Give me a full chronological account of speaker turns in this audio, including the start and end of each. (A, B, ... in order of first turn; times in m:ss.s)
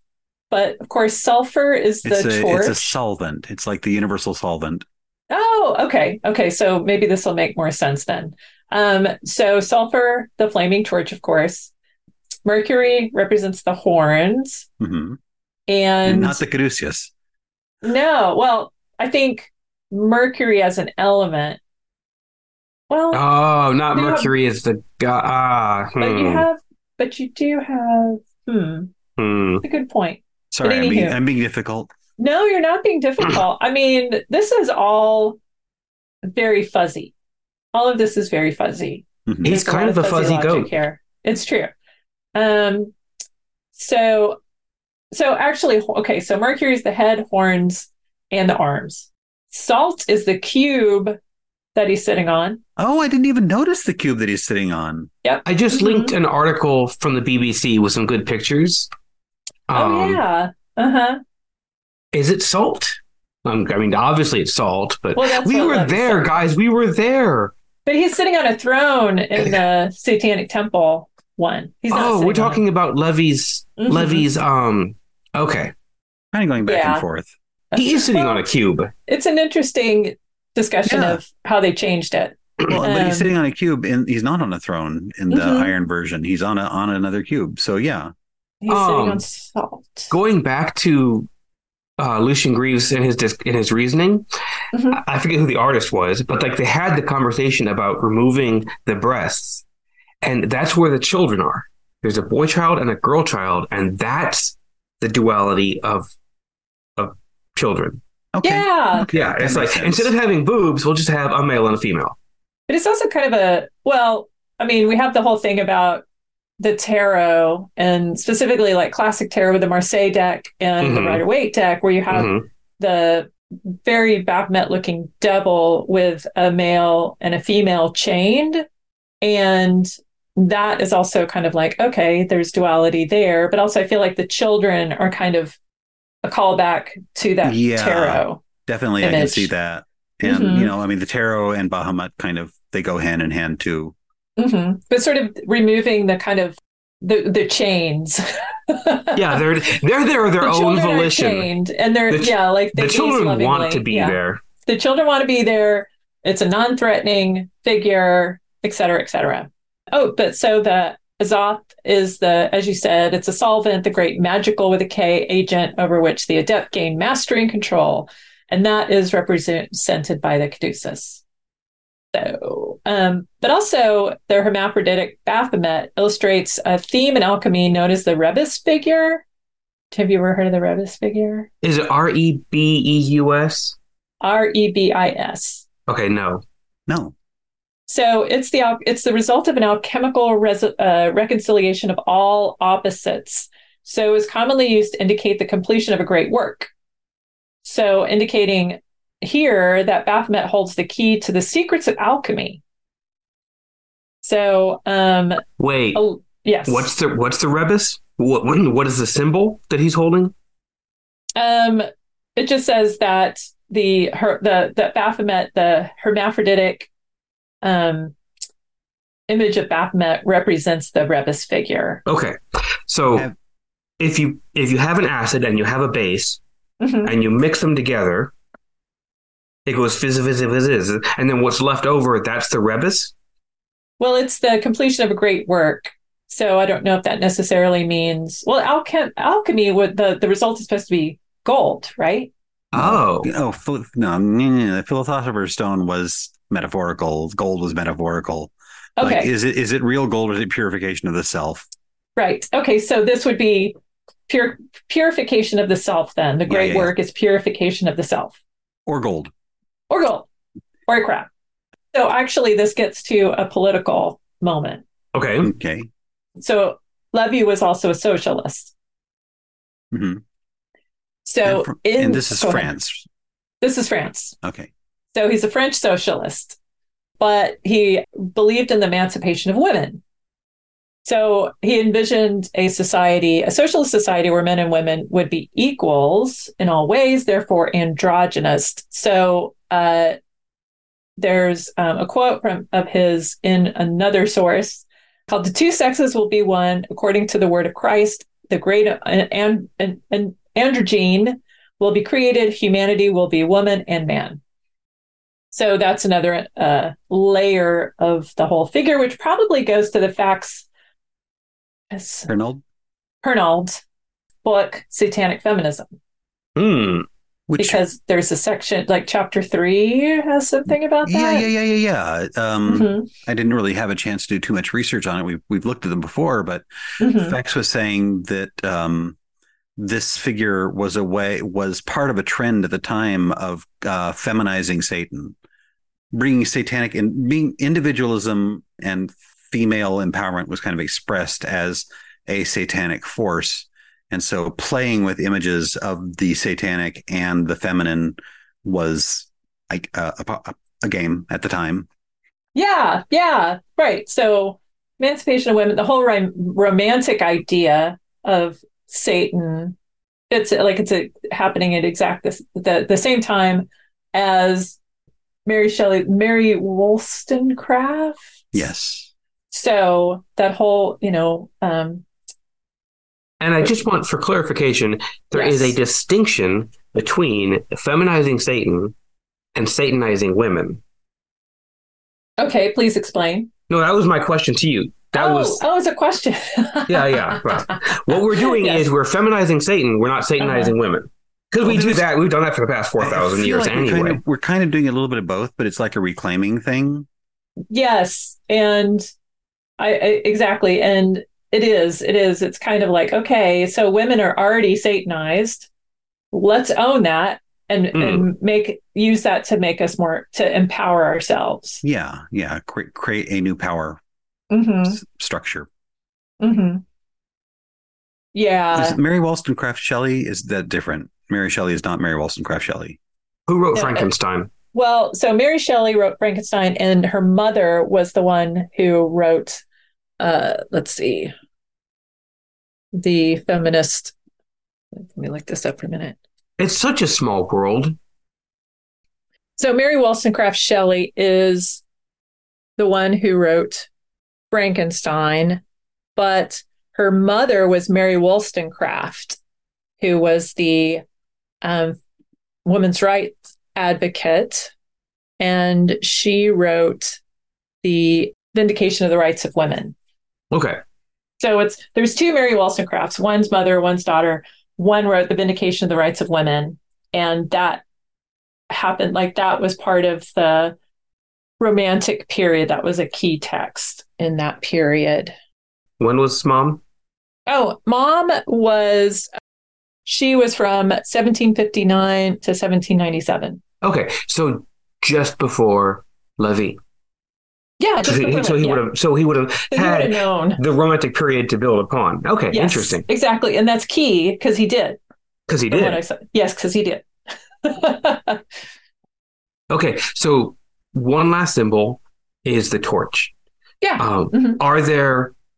0:00.5-0:03.0 A
0:02.0-0:04.8 B
0:05.3-0:11.7 A
0:12.4-0:14.7 A
0:14.8-0:15.2 B
0:15.7-0:16.4 A
0:16.0-0:17.1 B
0:17.8-0:21.6 A
0:22.9-0:23.2 A
0:23.1-0:26.5 C
0:23.9-0:24.3 A
0:26.0-0:28.9 A
0:29.2-0:29.6 C
0:29.6-0:31.2 A
0:30.5-0:31.9 B
0:32.2-0:35.4 A
0:36.3-0:37.1 A
0:37.7-0:41.7 A
0:39.3-0:39.5 B
0:39.4-0:40.7 C
0:42.4-0:42.9 A
0:43.7-0:44.4 A
0:45.1-0:51.2 A
0:51.8-0:52.6 A
0:52.8-0:55.1 B
0:55.2-0:56.1 A
0:55.5-0:58.9 C
0:59.7-1:00.2 C
0:59.7-1:01.2 A
1:02.1-1:07.5 C
1:05.2-1:06.3 A
1:07.9-1:12.6 A
1:11.9-1:15.7 C
1:13.8-1:14.3 A
1:16.3-1:17.3 B
1:16.6-1:17.0 A
1:17.7-1:18.4 A
1:17.8-1:18.9 C
1:19.1-1:23.3 A
1:20.9-1:21.2 B
1:22.7-1:28.1 B
1:25.3-1:25.7 A
1:28.6-1:30.1 A
1:28.7-1:29.2 C
1:30.1-1:31.3 C
1:32.0-1:34.3 C
1:34.7-1:35.0 A
1:34.9-1:39.6 C
1:40.2-1:46.1 C
1:47.0-1:48.0 C
1:48.3-1:50.1 B
1:48.4-1:49.1 A
1:49.1-1:52.2 C
1:52.7-1:56.0 A
1:56.6-2:08.6 A
2:00.8-2:01.2 C
2:02.1-2:02.5 C
2:09.2-2:15.6 A
2:16.2-2:18.4 A
2:17.4-2:24.0 B
2:19.0-2:19.5 A
2:20.2-2:20.7 A
2:24.4-2:29.4 A
2:29.2-2:31.5 C
2:30.4-2:51.2 A
2:32.1-2:34.4 C
2:52.1-2:59.2 A
2:59.9-3:01.5 A
3:01.6-3:03.8 C
3:04.2-3:05.6 A
3:05.9-3:06.4 C
3:06.9-3:07.1 B
3:07.9-3:16.7 A
3:17.6-3:22.6 A
3:24.2-3:26.9 A
3:25.6-3:26.0 C
3:26.7-3:30.3 C
3:31.4-3:36.9 A
3:37.6-3:38.2 A
3:39.3-3:42.0 A
3:42.1-3:43.3 C
3:44.0-3:46.4 C
3:46.8-3:47.1 A
3:47.0-3:48.3 C
3:49.7-3:53.1 C
3:54.0-4:02.3 A
4:02.7-4:03.3 C
4:02.8-4:11.7 B
4:09.0-4:09.3 A
4:12.2-4:13.8 A
4:14.3-4:18.4 A
4:16.5-4:16.9 B
4:18.9-4:19.3 B
4:19.9-4:20.3 A
4:20.9-4:21.3 A
4:21.9-4:24.8 A
4:25.1-4:25.5 C
4:25.4-4:25.9 B
4:26.4-4:28.7 A
4:29.9-4:30.2 B
4:31.2-4:32.7 A
4:31.4-4:33.1 B
4:33.6-4:34.4 A
4:34.4-4:34.7 B
4:35.1-4:36.6 A
4:37.2-4:40.0 A
4:41.0-4:50.2 A
4:51.2-5:04.4 A
5:05.5-5:10.7 A
5:11.9-5:12.3 A
5:12.3-5:12.6 B
5:13.2-5:13.8 A
5:14.4-5:15.9 A
5:16.6-5:17.1 C
5:17.5-5:17.8 B
5:17.6-5:21.5 A
5:21.0-5:29.2 B
5:22.7-5:23.1 A
5:27.0-5:27.4 A
5:29.8-5:35.4 B
5:36.1-5:51.9 B
5:52.6-5:59.8 A
6:00.3-6:04.8 A
6:05.5-6:08.2 A
6:08.5-6:09.1 B
6:09.5-6:12.0 A
6:13.4-6:18.9 C
6:15.3-6:15.8 A
6:19.6-6:20.8 C
6:22.4-6:23.5 A
6:23.7-6:25.6 C
6:25.1-6:28.9 A
6:26.9-6:34.2 C
6:30.4-6:30.7 A
6:31.6-6:32.1 B
6:33.0-6:37.1 B
6:37.7-6:39.1 A
6:39.8-6:45.7 A
6:46.3-6:51.8 A
6:47.9-6:48.3 C
6:51.8-6:54.0 B
6:54.5-6:55.0 A
6:54.9-6:55.7 B
6:56.4-6:56.8 A
6:58.3-6:59.0 A
6:58.7-7:03.0 B
7:03.5-7:04.5 C
7:03.7-7:04.1 A
7:04.7-7:09.6 A
7:10.2-7:11.3 A
7:12.9-7:14.1 A
7:14.9-7:16.2 A
7:16.6-7:18.0 C
7:19.6-7:21.8 A
7:22.8-7:23.9 A
7:24.5-7:25.6 A
7:26.2-7:29.4 A
7:30.0-7:31.0 A
7:31.6-7:32.0 A
7:32.6-7:34.7 A
7:35.4-7:37.2 A
7:37.8-7:40.0 A
7:40.5-7:40.8 C
7:41.4-7:47.8 A
7:48.7-7:50.8 A
7:51.6-7:55.3 A
7:56.0-7:56.8 C
7:57.5-7:59.3 A
8:00.1-8:03.6 A
8:03.8-8:06.8 C
8:07.8-8:08.8 A
8:08.0-8:13.0 C
8:09.7-8:10.6 A
8:12.5-8:15.0 A
8:15.5-8:16.0 C
8:15.7-8:17.1 A
8:17.6-8:18.4 A
8:19.7-8:23.3 C
8:23.8-8:24.6 A
8:24.0-8:25.3 C